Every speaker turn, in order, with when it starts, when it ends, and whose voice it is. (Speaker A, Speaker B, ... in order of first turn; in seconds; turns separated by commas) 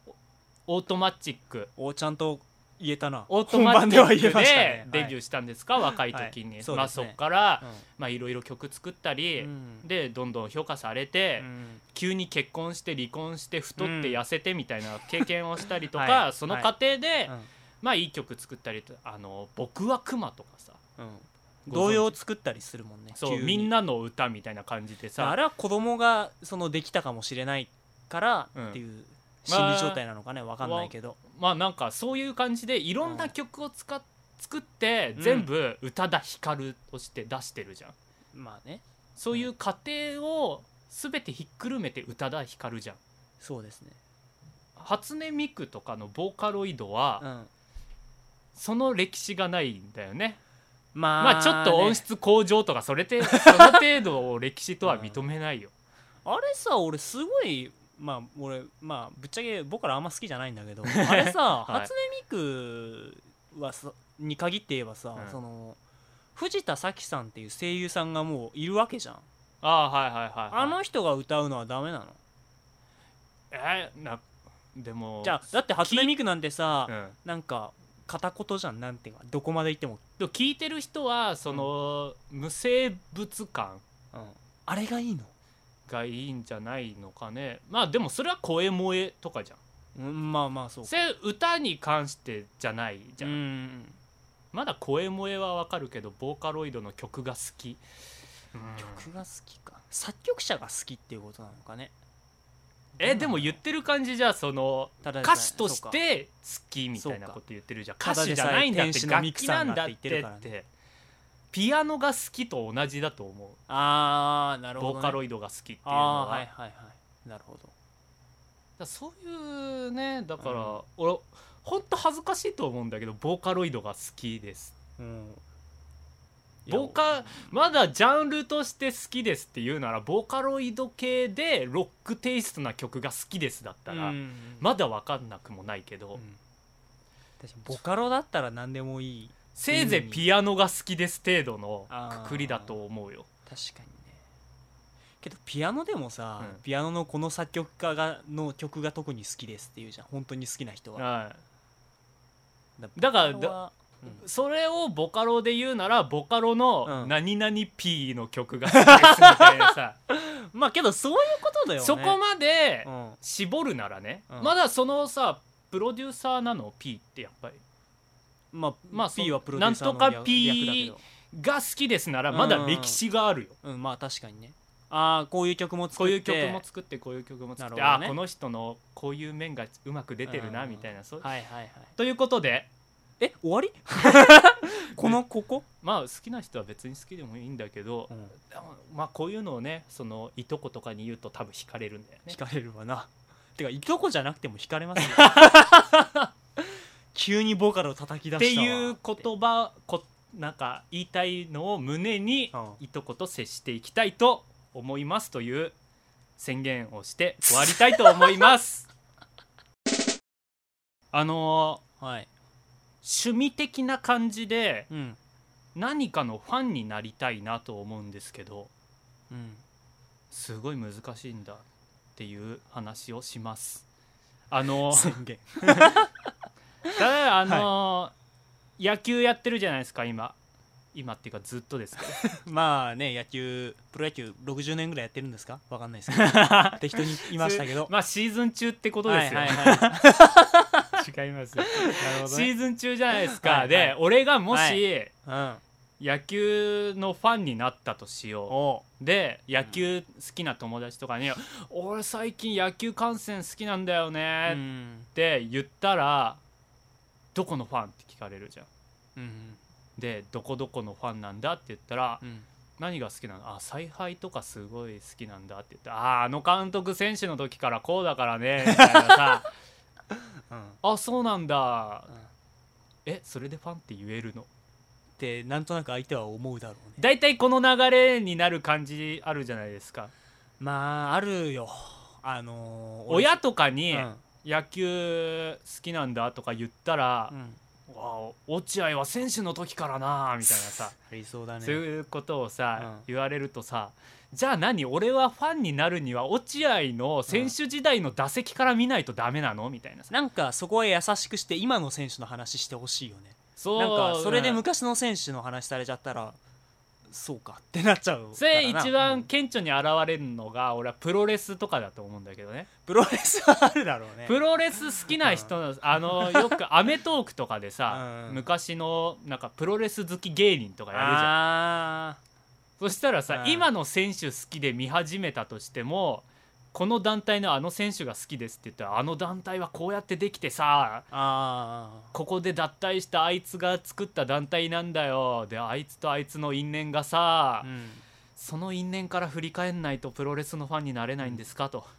Speaker A: 0.7-1.7, Speaker B: 1.8-5.2, Speaker A: 3.3-20.8, Speaker B: 6.0-7.8, Speaker B: 9.4-9.9, Speaker B: 11.4-11.8, Speaker B: 13.8-14.2, Speaker B: 15.9-16.7, Speaker B: 21.0-23.7, Speaker A: 21.7-22.1, Speaker A: 23.1-25.4, Speaker B: 25.2-31.2, Speaker A: 28.5-28.8, Speaker A: 29.5-30.0, Speaker A: 30.6-37.9, Speaker B: 33.0-33.3, Speaker B: 35.1-35.5, Speaker B: 38.3-39.5, Speaker A: 39.1-43.0, Speaker B: 43.4-44.0, Speaker A: 44.8-47.2, Speaker B: 47.2-47.5, Speaker A: 48.5-50.4, Speaker B: 50.9-52.0, Speaker A: 51.2-55.7, Speaker B: 53.3-53.8, Speaker B: 54.8-55.2, Speaker B: 56.2-65.8, Speaker A: 60.9-61.9, Speaker B: 66.3-69.2, Speaker A: 69.6-70.8, Speaker B: 70.5-72.2, Speaker A: 73.5-74.2, Speaker A: 74.7-76.2, Speaker B: 75.2-80.0, Speaker A: 76.9-77.2, Speaker A: 80.2-83.8, Speaker B: 84.1-85.3, Speaker A: 85.9-89.6, Speaker B: 89.9-91.0, Speaker A: 90.9-93.4, Speaker B: 93.2-94.0, Speaker A: 94.5-97.8, Speaker A: 98.5-99.1, Speaker B: 98.8-101.9, Speaker B: 103.0-103.6, Speaker A: 103.0-110.7, Speaker B: 105.0-106.0, Speaker B: 107.0-107.4, Speaker B: 108.0-110.5, Speaker A: 111.5-113.6, Speaker B: 113.7-115.2, Speaker A: 114.8-116.5, Speaker B: 115.8-117.7, Speaker A: 118.8-124.7, Speaker B: 120.4-120.8, Speaker B: 125.0-125.4, Speaker B: 126.7-127.5, Speaker A: 126.7-136.2, Speaker B: 133.9-134.7, Speaker B: 136.1-136.4, Speaker B: 137.4-140.2, Speaker A: 139.5-143.2, Speaker B: 141.9-142.7, Speaker B: 143.5-144.2, Speaker B: 145.2-151.0, Speaker A: 150.9-151.4, Speaker B: 152.8-154.2, Speaker A: 152.9-160.0, Speaker B: 156.8-157.1, Speaker B: 158.7-162.2, Speaker A: 161.8-167.6, Speaker B: 162.8-163.2, Speaker B: 168.5-171.0, Speaker A: 168.9-173.5, Speaker B: 172.3-173.0, Speaker B: 173.6-176.6, Speaker A: 175.9-181.3, Speaker B: 177.6-178.2, Speaker B: 180.3-181.9, Speaker A: 181.9-182.7, Speaker B: 183.2-185.6, Speaker A: 184.9-185.2, Speaker A: 185.8-192.4, Speaker B: 192.3-195.8, Speaker A: 195.0-196.3, Speaker B: 196.6-199.2, Speaker A: 198.4-205.8, Speaker B: 202.5-202.8, Speaker A: 206.4-208.9, Speaker B: 207.7-208.2, Speaker A: 211.1-211.8, Speaker B: 212.0-212.3, Speaker A: 213.0-214.9, Speaker B: 214.9-215.2, Speaker A: 215.7-218.7, Speaker B: 219.3-219.6, Speaker A: 220.3-221.6, Speaker A: 222.2-223.8, Speaker A: 224.5-226.1, Speaker B: 224.9-226.3, Speaker A: 226.9-228.1, Speaker A: 228.8-230.3, Speaker A: 230.9-232.2, Speaker B: 232.2-237.9, Speaker A: 236.1-240.3, Speaker B: 239.1-240.9, Speaker A: 240.9-245.1, Speaker B: 241.7-242.5, Speaker B: 243.3-243.9, Speaker B: 244.5-245.6, Speaker A: 246.0-254.6, Speaker B: 248.5-248.8, Speaker B: 254.5-255.1, Speaker A: 255.1-256.4, Speaker A: 257.3-258.7, Speaker B: 259.1-259.6, Speaker A: 260.0-262.2, Speaker B: 262.2-262.5, Speaker A: 262.8-269.5, Speaker B: 268.6-269.2, Speaker B: 270.1-270.8, Speaker A: 270.8-272.1, Speaker A: 273.1-274.5, Speaker B: 275.2-277.0, Speaker A: 277.0-280.1, Speaker B: 280.6-284.2, Speaker A: 283.1-287.3, Speaker B: 287.3-287.6, Speaker A: 287.9-290.9, Speaker B: 290.9-291.8, Speaker A: 291.6-300.1, Speaker B: 292.8-293.0, Speaker B: 297.3-297.5, Speaker B: 300.1-306.4, Speaker A: 303.6-304.6, Speaker B: 307.1-309.3, Speaker A: 308.4-312.7, Speaker B: 312.9-314.4, Speaker A: 314.2-321.3, Speaker B: 315.2-315.5, Speaker B: 316.1-316.6, Speaker B: 317.9-318.4, Speaker B: 320.9-322.2, Speaker A: 322.8-331.1, Speaker B: 323.3-323.7, Speaker B: 331.1-332.1, Speaker A: 332.1-337.7, Speaker B: 337.6-338.0, Speaker A: 338.4-341.9